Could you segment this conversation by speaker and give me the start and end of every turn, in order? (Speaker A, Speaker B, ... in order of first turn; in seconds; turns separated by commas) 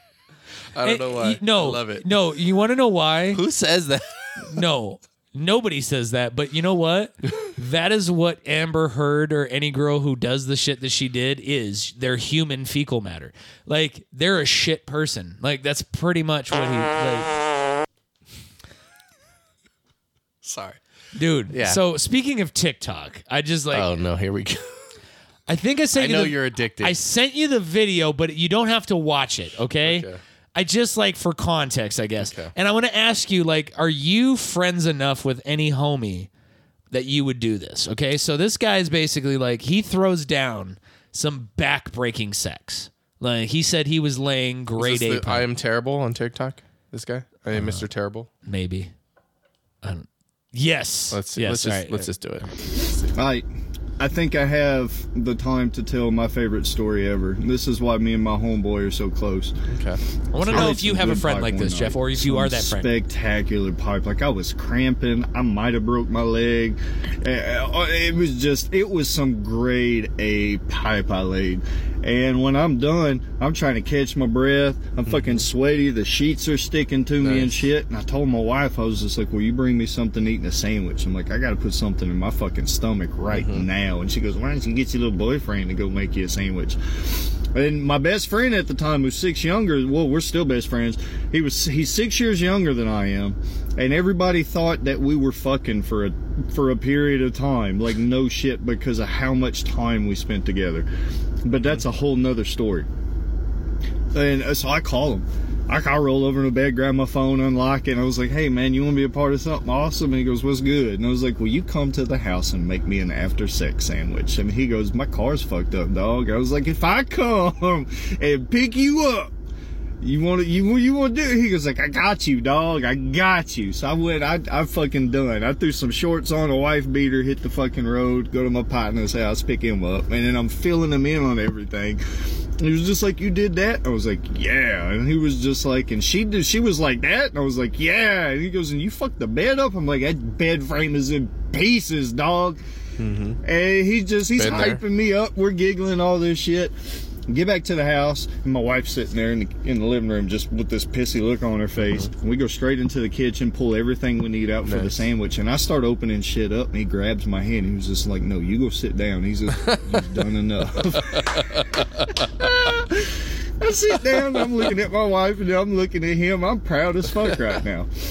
Speaker A: 0.7-2.1, Speaker B: 0.8-3.4, Speaker A: 3.3-4.6, Speaker B: 4.5-17.3, Speaker A: 20.4-20.8, Speaker B: 21.1-23.9, Speaker A: 21.5-21.8, Speaker A: 23.7-24.8, Speaker B: 25.5-36.3, Speaker A: 25.9-27.0, Speaker A: 29.8-30.2, Speaker A: 32.2-32.5, Speaker B: 36.9-45.5, Speaker A: 44.8-48.3, Speaker B: 47.5-47.9, Speaker B: 48.4-48.9, Speaker B: 49.8-52.1, Speaker A: 51.1-53.1, Speaker C: 53.2-53.5, Speaker C: 54.0-59.5, Speaker A: 59.7-60.8, Speaker B: 60.3-62.9, Speaker C: 60.4-100.9, Speaker A: 75.1-75.5, Speaker A: 77.2-77.6, Speaker A: 83.2-83.7, Speaker C: 101.4-102.9, Speaker C: 104.1-119.3, Speaker C: 120.0-132.0, Speaker C: 132.6-142.6, Speaker A: 143.0-143.4, Speaker C: 143.4-146.7, Speaker A: 144.3-144.8, Speaker C: 147.3-167.9, Speaker A: 151.8-152.1, Speaker A: 154.6-155.0, Speaker A: 159.7-160.1, Speaker A: 160.8-162.1